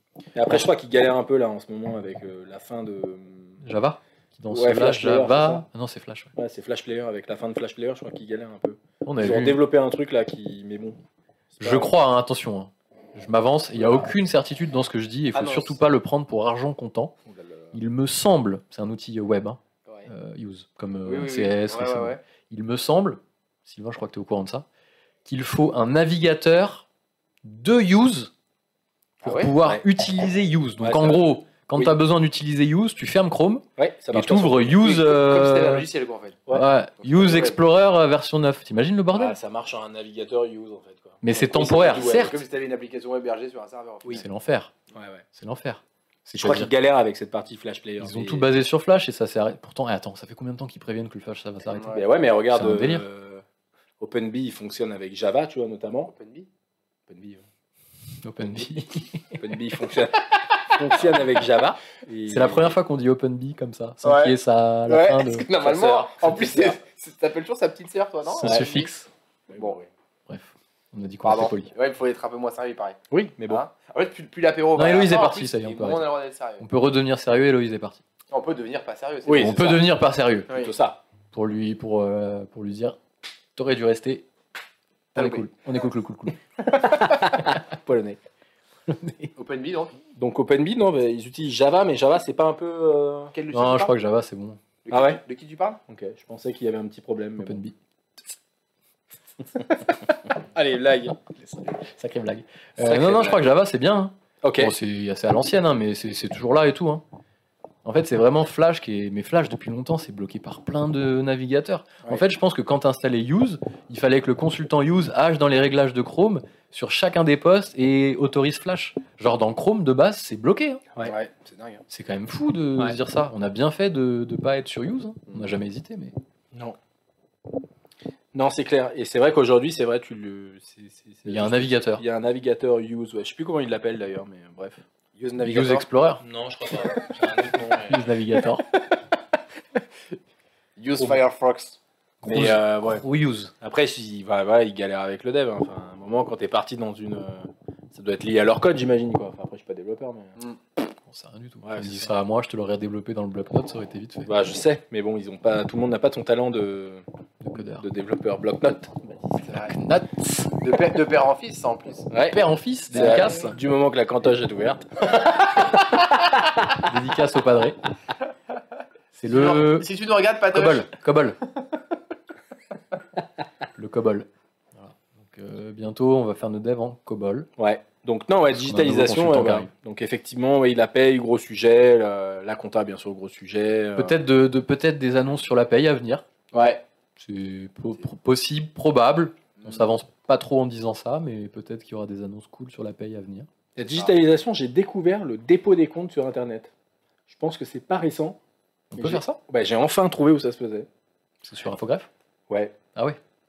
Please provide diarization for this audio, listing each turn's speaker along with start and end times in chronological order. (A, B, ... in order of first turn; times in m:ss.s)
0:00.3-0:03.6 A
0:03.6-0:06.3 B
0:04.5-0:05.6 A
0:06.4-0:11.0 A
0:09.0-0:09.6 B
0:11.5-0:11.9 A
0:11.6-0:17.1 B
0:15.3-0:15.8 C
0:17.3-0:17.7 C
0:17.7-0:24.6 B
0:21.0-0:22.2 C
0:25.2-0:26.9 B
0:27.4-0:28.3 B
0:29.2-0:35.8 B
0:29.2-0:29.5 C
0:30.8-0:31.9 A
0:33.8-0:34.7 A
0:34.7-0:36.5 C
0:36.5-0:39.4 B
0:37.0-0:37.6 C
0:39.1-0:42.3 A
0:41.2-0:42.4 B
0:41.4-0:44.2 C
0:44.1-0:44.7 B
0:44.9-0:45.2 A
0:45.3-0:46.7 B
0:46.3-0:48.5 A
0:48.0-0:52.0 B
0:51.7-0:52.0 C
0:51.9-0:53.4 A
0:52.5-0:53.0 B
0:54.0-0:56.1 A
0:56.1-0:56.5 C
0:57.1-0:57.4 A
0:58.2-0:59.4 B
0:59.4-1:02.8 A
1:02.3-1:05.5 B
1:04.0-1:04.4 C
1:04.9-1:08.9 C
1:05.6-1:06.8 A
1:08.2-1:09.1 B
1:08.4-1:08.7 A
1:09.5-1:09.9 A
1:10.3-1:11.7 B
1:11.2-1:16.6 C
1:13.1-1:13.6 A
1:14.8-1:18.0 B
1:18.3-1:19.8 C
1:19.2-1:19.8 A
1:19.4-1:20.5 B
1:20.5-1:21.0 A
1:21.3-1:23.0 B
1:23.6-1:24.3 B
1:25.1-1:25.4 C
1:25.1-1:26.4 B
1:26.7-1:28.2 A
1:28.9-1:29.3 B
1:29.4-1:29.9 C
1:30.2-1:33.3 A
1:33.3-1:33.9 C
1:33.5-1:34.6 B
1:34.8-1:35.8 C
1:34.9-1:35.2 A
1:35.9-1:37.6 A
1:37.4-1:37.8 B
1:40.6-1:41.2 A
1:41.8-1:47.0 B
1:42.8-1:43.4 A
1:44.4-1:44.7 A
1:47.8-2:00.8 B
2:01.0-2:01.8 C
2:01.9-2:06.1 B
2:08.3-2:18.1 A
2:11.2-2:12.0 B
2:15.4-2:16.2 B
2:15.4-2:15.7 C
2:17.8-2:18.6 B
2:20.8-2:21.8 C
2:22.2-2:23.0 A
2:22.2-2:23.5 B
2:23.6-2:30.4 A
2:31.0-2:34.3 B
2:31.6-2:32.1 A
2:34.2-2:37.0 A
2:37.4-2:37.9 B
2:37.6-2:39.4 A
2:39.4-2:39.8 C
2:39.7-2:40.5 B
2:40.5-2:42.1 C
2:42.1-2:42.4 A
2:42.3-2:43.6 B
2:42.9-2:46.4 A
2:43.0-2:43.4 C
2:46.8-2:47.8 B
2:49.1-2:49.9 B
2:49.3-2:50.9 C
2:50.5-2:51.4 B
2:53.8-2:57.5 B
2:57.6-3:04.2 A
2:58.5-2:59.7 B
3:04.0-3:06.3 B
3:06.5-3:06.8 A
3:07.2-3:13.5 B
3:13.8-3:16.7 A
3:17.3-3:18.4 A
3:18.9-3:19.4 B
3:18.9-3:20.9 A
3:21.4-3:22.1 B
3:22.5-3:22.8 A